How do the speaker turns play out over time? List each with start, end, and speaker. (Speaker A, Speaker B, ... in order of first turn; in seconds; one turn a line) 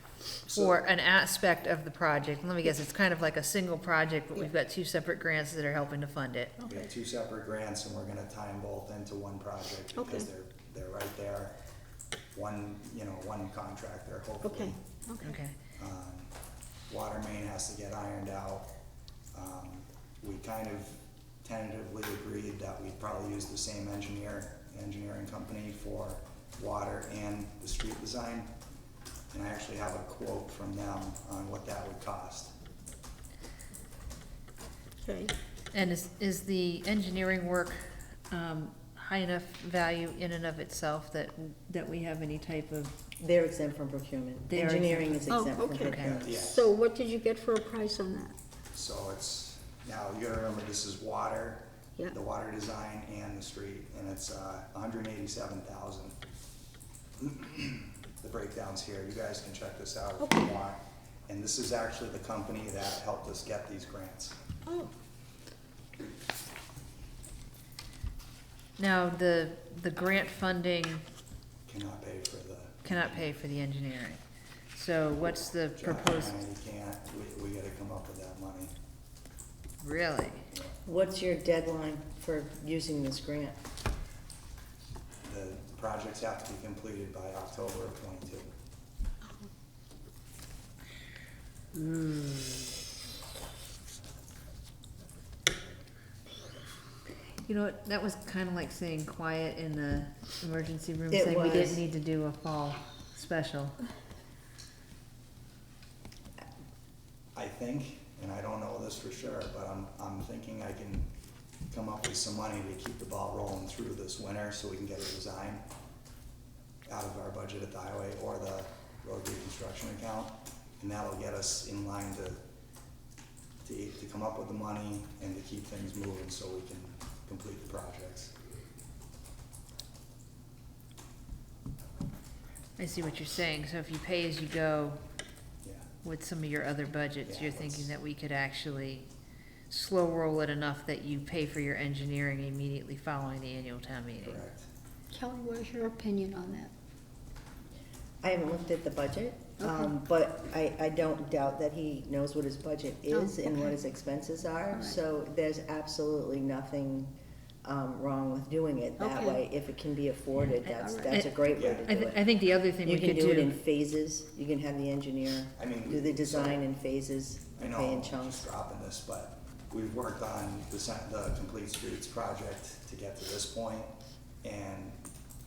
Speaker A: 0.4-6.6
Speaker B: 0.5-0.8
Speaker C: 6.6-6.9
Speaker B: 6.7-11.6
Speaker C: 10.0-10.3
Speaker B: 12.3-14.8
Speaker C: 14.4-15.4
Speaker A: 15.2-15.6
Speaker B: 15.8-16.3
Speaker B: 16.9-18.7
Speaker B: 19.3-28.5
Speaker B: 29.3-32.5
Speaker C: 35.0-35.4
Speaker A: 35.7-43.0
Speaker D: 43.2-46.1
Speaker A: 44.5-46.4
Speaker C: 45.3-48.4
Speaker B: 46.0-46.7
Speaker B: 48.7-56.2
Speaker B: 57.2-64.4
Speaker C: 60.2-60.5
Speaker C: 64.7-64.9
Speaker A: 68.8-71.0
Speaker B: 71.7-73.2
Speaker A: 72.8-74.2
Speaker A: 74.7-76.4
Speaker B: 75.8-78.7
Speaker A: 79.8-80.5
Speaker D: 80.8-83.6
Speaker B: 85.2-88.5
Speaker A: 97.5-103.8
Speaker D: 101.1-101.8
Speaker B: 107.3-111.1
Speaker B: 111.7-115.6
Speaker B: 116.9-122.4
Speaker B: 123.6-128.3
Speaker A: 132.8-135.0
Speaker B: 135.6-135.9
Speaker A: 136.0-139.1
Speaker B: 137.3-137.9
Speaker A: 139.7-144.4
Speaker B: 144.2-144.7
Speaker C: 145.1-146.7
Speaker D: 148.2-162.2
Speaker C: 149.6-149.9
Speaker C: 153.1-153.7
Speaker C: 154.7-155.0
Speaker C: 159.0-159.4
Speaker C: 160.5-161.2
Speaker B: 161.6-161.8
Speaker A: 161.8-163.5
Speaker D: 162.8-168.5
Speaker B: 165.6-166.6
Speaker B: 167.6-175.0